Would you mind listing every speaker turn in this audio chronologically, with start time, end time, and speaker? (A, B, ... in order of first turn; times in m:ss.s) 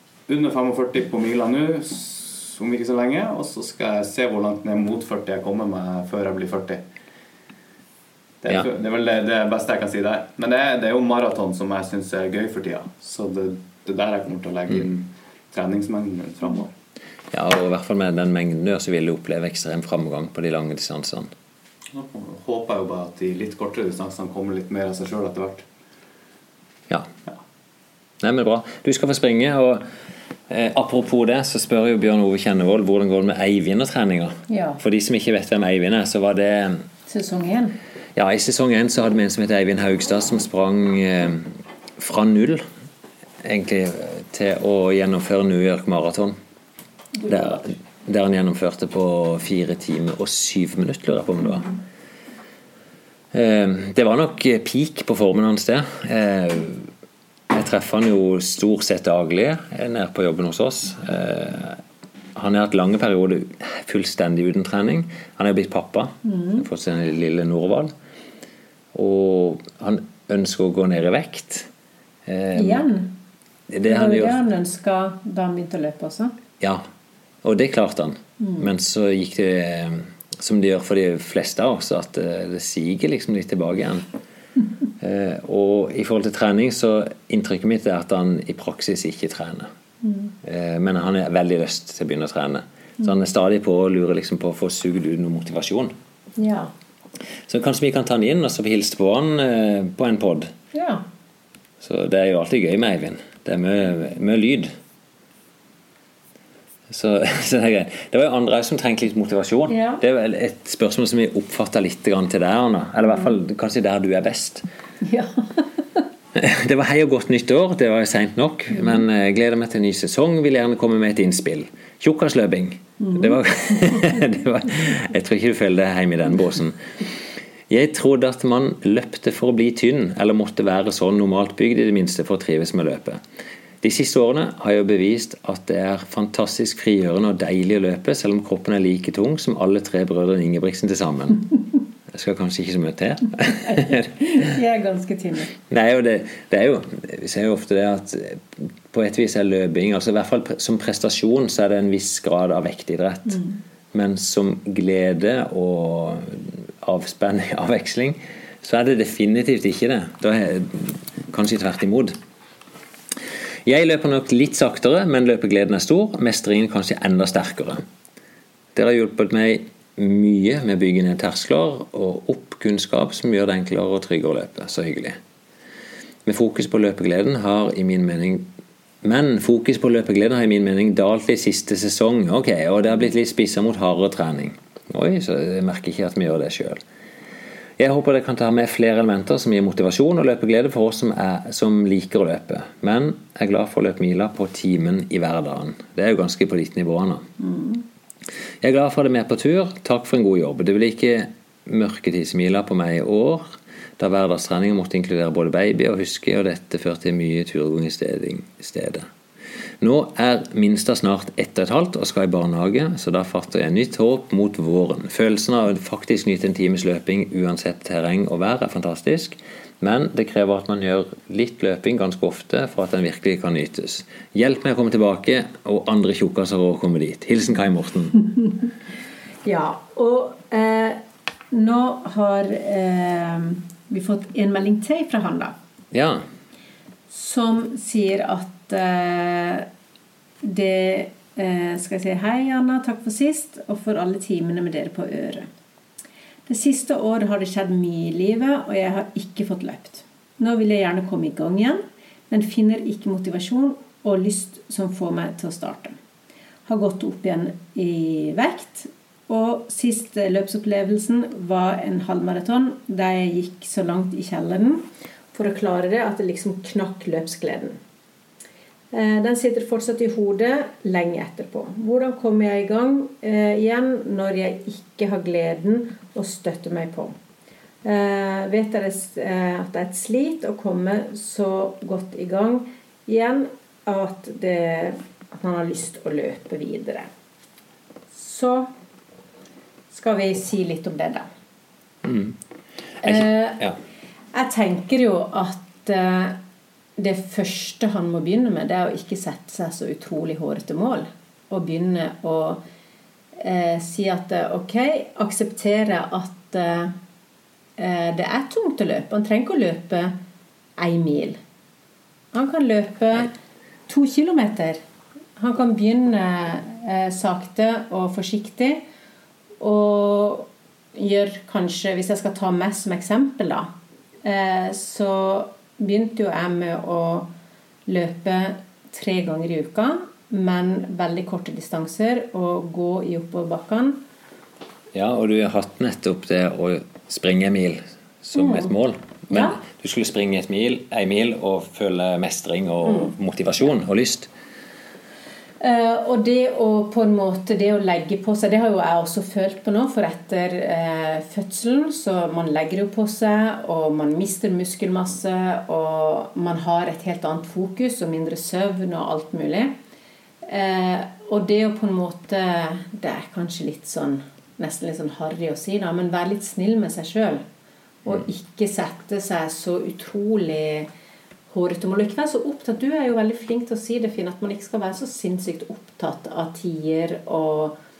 0:00.3-0:06.8 A
0:08.4-0:16.7 A
0:17.3-0:21.3 B
0:21.9-0:25.6 A
0:28.2-0:29.8 B
0:30.5-0:36.8 B
0:34.5-0:34.8 C
0:37.1-0:37.8 C
0:38.1-0:42.6 B
0:43.4-0:46.4 B
0:47.2-0:47.6 C
0:47.3-0:51.7 B
0:53.3-0:56.9 B
0:57.5-1:01.8 B
1:02.3-1:07.9 B
1:06.2-1:06.7 C
1:08.9-1:11.7 B
1:12.2-1:12.8 B
1:12.5-1:13.2 C
1:13.7-1:14.4 B
1:13.8-1:16.3 C
1:17.4-1:24.1 B
1:18.4-1:18.7 C
1:25.0-1:29.7 B
1:30.0-1:30.3 C
1:30.4-1:35.9 B
1:36.4-1:36.7 C
1:37.5-1:40.5 B
1:40.7-1:41.0 C
1:41.8-1:44.7 B
1:46.9-1:54.6 B
1:49.7-1:50.0 C
1:55.0-1:56.0 C
1:56.3-2:06.8 B
1:58.7-1:59.0 C
2:03.0-2:03.4 C
2:07.7-2:13.2 B
2:13.8-2:21.4 B
2:22.1-2:24.1 B
2:23.6-2:25.5 C
2:25.7-2:33.4 B
2:33.3-2:33.6 C
2:33.9-2:42.2 B
2:43.6-2:47.8 B
2:48.7-2:55.2 B
2:56.2-2:58.5 B
2:59.0-3:06.8 B
3:07.8-3:17.2 B
3:17.4-3:17.8 C
3:18.6-3:29.1 B
3:29.8-3:48.2 B
3:49.4-3:55.5 C
3:55.9-3:56.2 B
3:57.1-3:59.7 C
4:00.4-4:05.5 C
4:06.5-4:16.0 C
4:16.7-4:27.8 C
4:28.9-4:37.1 C
4:37.8-4:47.1 C
4:48.1-4:48.7 C
4:49.9-4:51.3 C
4:52.0-4:52.4 B
4:53.0-4:53.8 B
4:53.0-4:53.6 C
4:54.3-4:56.4 C
4:57.0-5:02.6 C
5:03.4-5:06.9 C
5:07.8-5:10.2 C
5:10.8-5:11.4 C
5:12.3-5:13.3 C
5:13.9-5:14.8 C
5:15.4-5:18.8 C
5:19.6-5:23.7 C
5:24.2-5:27.3 C
5:27.9-5:34.0 C
5:34.9-5:44.3 B
5:38.3-5:38.7 C
5:39.3-5:39.6 C
5:42.8-5:43.1 C
5:45.6-5:59.7 C
6:00.4-6:07.4 C
6:08.0-6:10.9 C
6:11.5-6:17.8 C